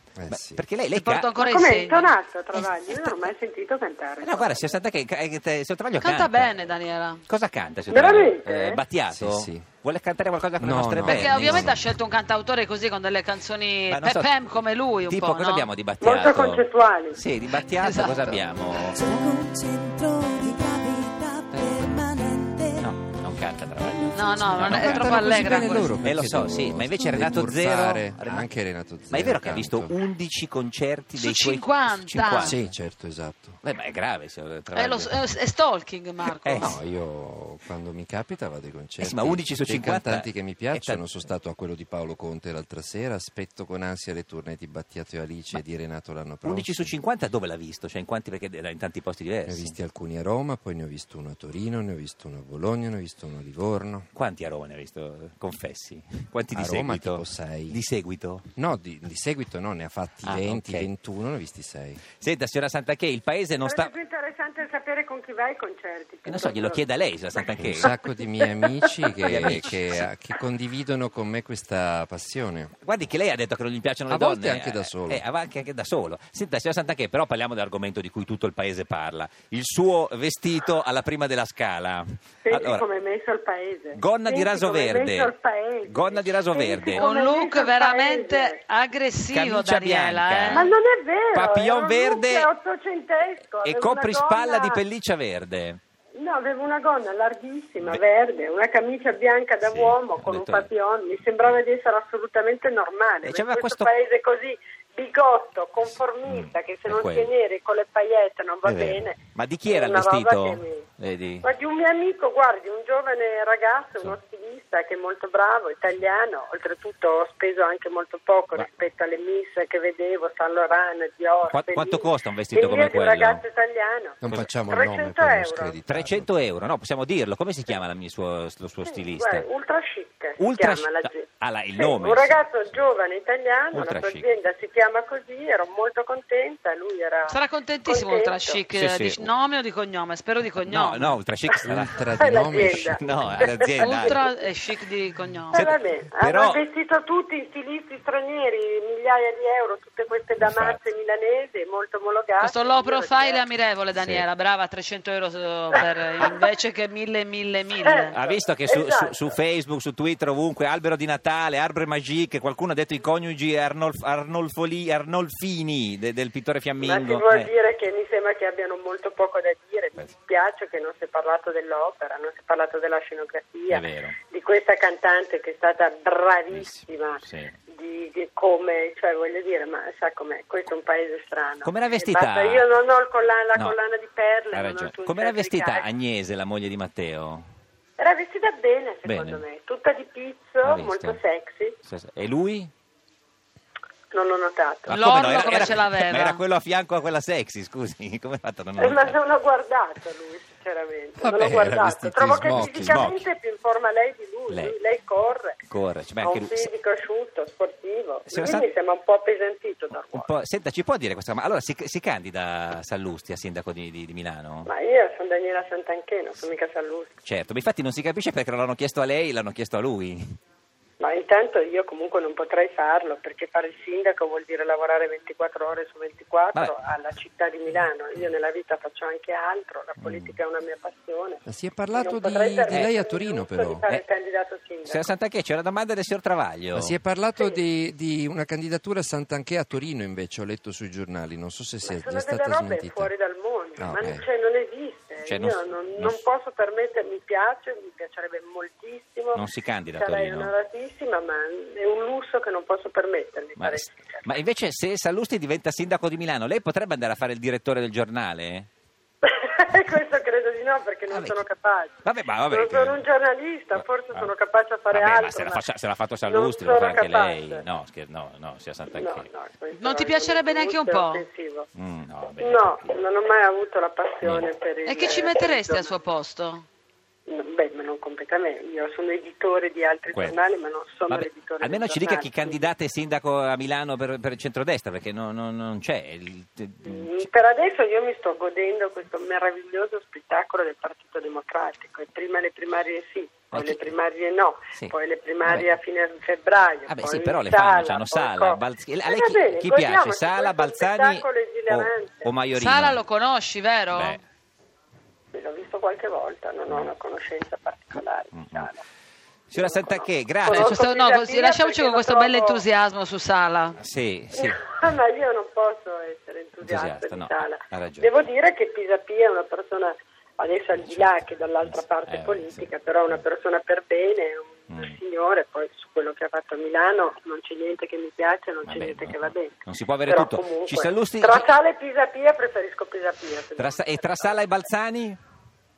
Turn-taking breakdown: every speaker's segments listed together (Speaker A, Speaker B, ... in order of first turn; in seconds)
Speaker A: 0.1-0.6, 9.1-9.7, 10.6-11.9, 24.6-30.0, 32.3-33.6, 36.5-46.9, 49.5-54.1, 56.5-57.8, 58.6-62.0, 67.6-72.7, 74.1-75.2, 124.2-126.3, 141.6-143.5, 201.2-203.2, 231.5-233.8, 236.7-243.1, 243.8-244.2
Speaker B: 0.3-1.3, 2.5-3.3, 4.2-6.7, 7.2-11.7, 13.9-14.6, 15.1-19.0, 22.8-25.2, 26.0-28.5, 29.1-32.7, 33.6-35.2, 36.2-36.8, 39.0-41.3, 46.4-49.8, 54.1-58.5, 60.2-60.9, 62.2-63.9, 66.3-67.9, 69.2-70.1, 72.8-82.8, 84.0-85.3, 85.9-87.0, 89.3-90.7, 91.3-92.5, 93.6-95.8, 99.6-100.7, 103.2-103.9, 106.2-107.3, 108.7-111.5, 121.5-123.4, 125.9-129.5, 130.4-132.8, 133.7-134.3, 138.7-139.3, 140.6-142.0, 143.0-144.2, 145.5-146.6, 150.4-150.8, 153.9-154.2, 158.1-167.5, 173.7-174.2, 176.5-177.6, 181.6-182.7, 184.5-187.5, 189.1-189.4, 190.6-191.2, 191.8-192.7, 194.9-199.2, 202.4-203.2, 204.5-204.8, 205.7-206.7, 208.3-208.7, 209.9-214.7, 217.2-220.4, 227.7-228.2, 230.0-230.3, 234.9-237.0, 245.2-246.2, 249.3-250.5, 253.6-258.7, 261.1-261.4, 262.0-263.0, 263.7-264.3, 264.9-269.3, 271.8-273.0, 274.2-274.5, 280.1-280.4, 281.1-287.3, 293.5-293.9, 294.8-295.7, 296.9-303.0, 303.9-304.2, 306.7-306.9, 308.3-308.7, 309.5-310.8, 313.8-314.7, 316.6-318.2, 320.8-323.2, 324.7-325.0, 328.6-331.5, 333.6-335.2
Speaker C: 0.9-2.2, 6.0-7.2, 11.1-15.7, 17.6-18.4, 24.1-26.0, 31.2-32.6, 34.8-36.8, 86.9-90.7, 137.3-141.1, 143.8-145.7, 152.4-158.2, 194.9-196.4, 269.7-271.2, 274.9-276.6, 302.6-304.2, 310.5-313.8
Speaker D: 1.4-4.8, 7.9-8.8, 16.0-17.2, 63.6-66.8, 82.4-88.6, 90.5-94.8, 96.2-110.9, 111.4-125.8, 128.9-138.6, 142.2-144.3, 145.5-153.5, 155.7-156.5, 157.8-159.4, 166.8-185.9, 188.0-191.8, 194.1-195.8, 198.8-205.6, 206.2-210.3, 214.7-217.2, 221.0-235.2, 241.8-249.4, 249.9-254.3, 259.2-265.6, 266.2-267.7, 268.9-271.7, 272.4-276.0, 277.3-282.7, 286.9-302.3, 305.3-308.8, 309.5-312.7, 314.3-329.6, 330.1-334.4
Speaker E: 18.9-22.9